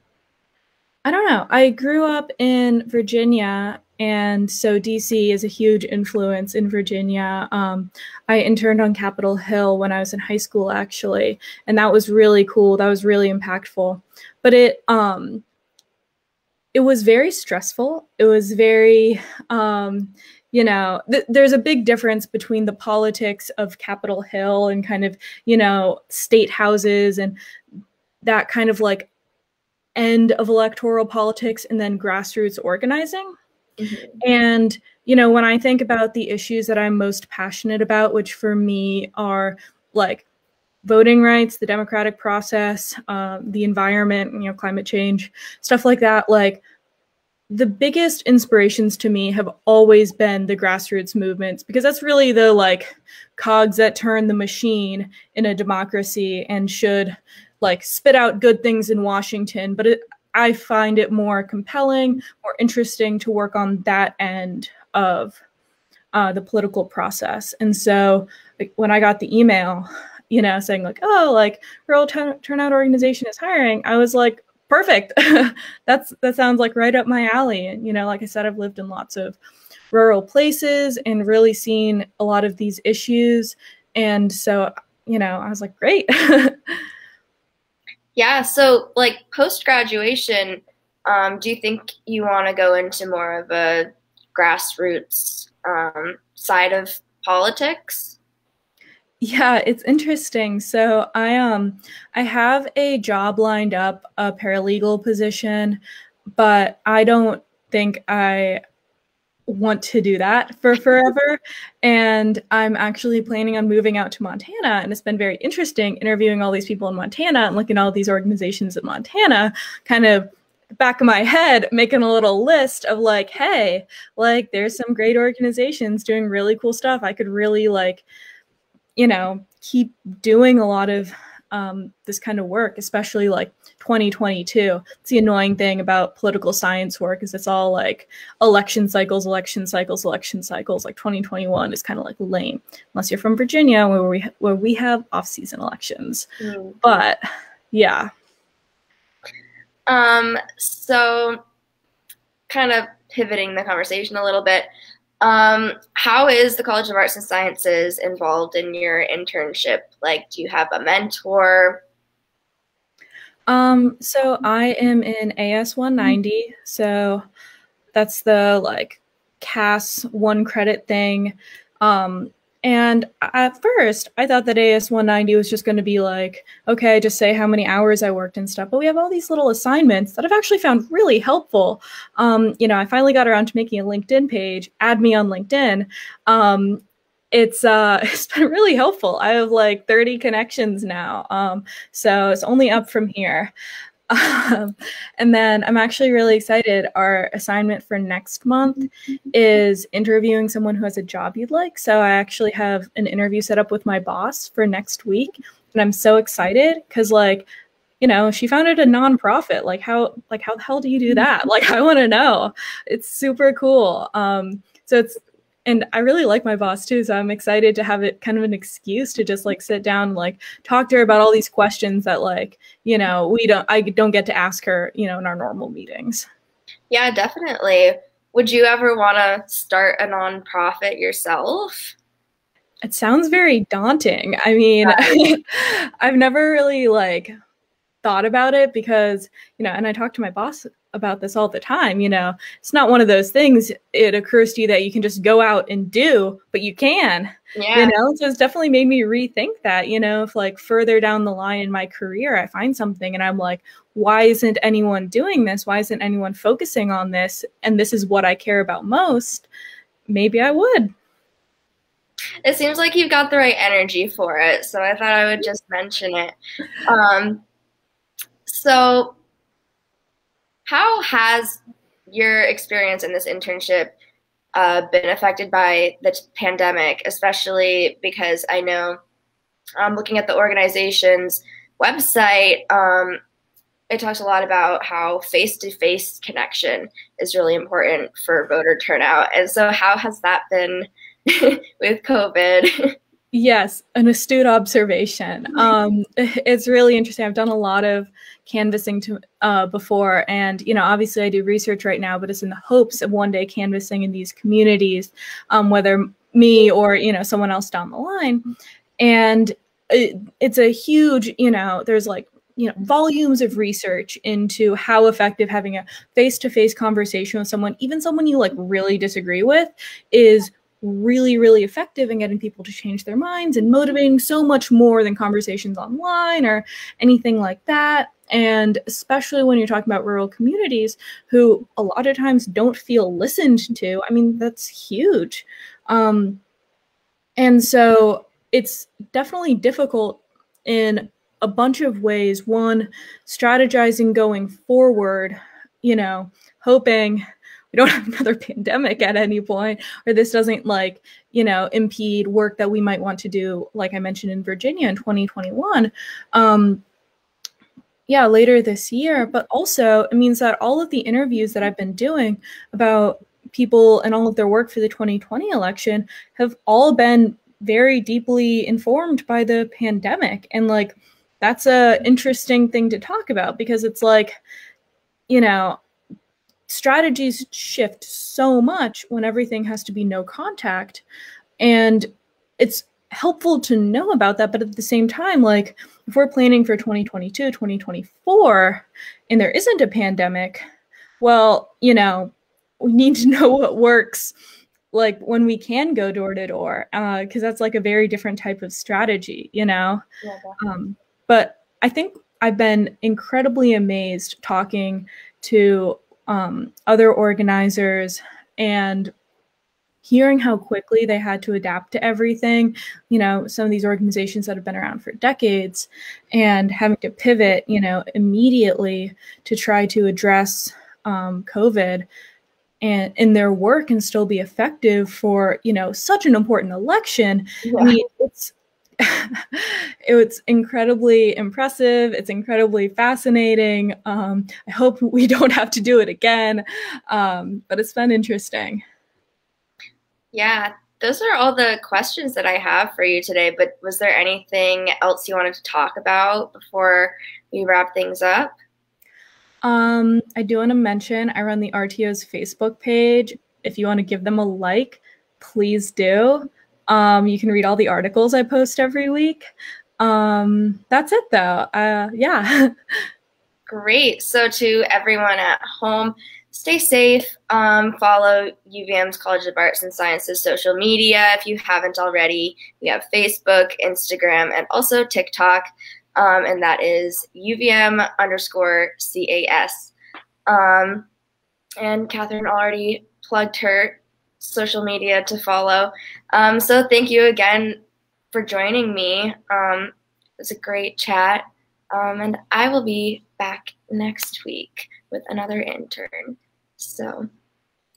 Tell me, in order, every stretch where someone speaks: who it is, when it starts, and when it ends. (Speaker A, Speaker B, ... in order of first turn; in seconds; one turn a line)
Speaker A: 1.1-15.4
Speaker A: 16.7-27.4
Speaker A: 28.2-29.1
Speaker A: 30.0-33.3
Speaker B: 33.8-34.2
Speaker A: 34.2-40.3
Speaker A: 40.8-46.6
Speaker A: 47.5-65.4
Speaker A: 66.1-79.4
Speaker A: 79.9-86.6
Speaker B: 88.2-98.2
Speaker A: 99.2-105.8
Speaker A: 106.3-108.6
Speaker A: 109.5-128.1
Speaker A: 129.0-146.3
Speaker B: 146.4-146.8
Speaker A: 146.8-148.1
Speaker B: 149.9-151.4
Speaker B: 152.5-154.7
Speaker B: 155.2-161.8
Speaker A: 163.5-167.2
Speaker A: 167.9-193.5
Speaker A: 194.1-207.5
Speaker A: 208.0-226.3
Speaker B: 226.9-231.9
Speaker A: 232.8-237.3
Speaker B: 234.8-235.1
Speaker A: 238.0-259.5
Speaker B: 247.6-247.9
Speaker A: 260.1-260.9
Speaker B: 262.4-267.4
Speaker B: 268.5-269.2
Speaker B: 270.7-274.0
Speaker B: 274.6-279.0
Speaker B: 279.8-283.2
Speaker B: 283.9-292.9
Speaker A: 293.3-308.4
Speaker A: 309.0-336.4
Speaker A: 337.4-356.8
Speaker A: 358.1-374.4
Speaker A: 375.3-375.8
Speaker A: 376.7-381.0
Speaker A: 381.6-382.1
Speaker A: 382.6-390.6
Speaker A: 391.2-394.3
Speaker A: 394.9-400.0
Speaker B: 400.2-400.6
Speaker A: 400.6-409.1
Speaker A: 410.0-422.1
Speaker A: 422.8-438.8
Speaker B: 427.6-428.0
Speaker B: 440.3-448.6
Speaker A: 449.6-459.4
Speaker A: 460.0-462.7
Speaker B: 463.7-479.9
Speaker B: 480.5-481.1
Speaker B: 481.8-487.8
Speaker B: 488.3-497.3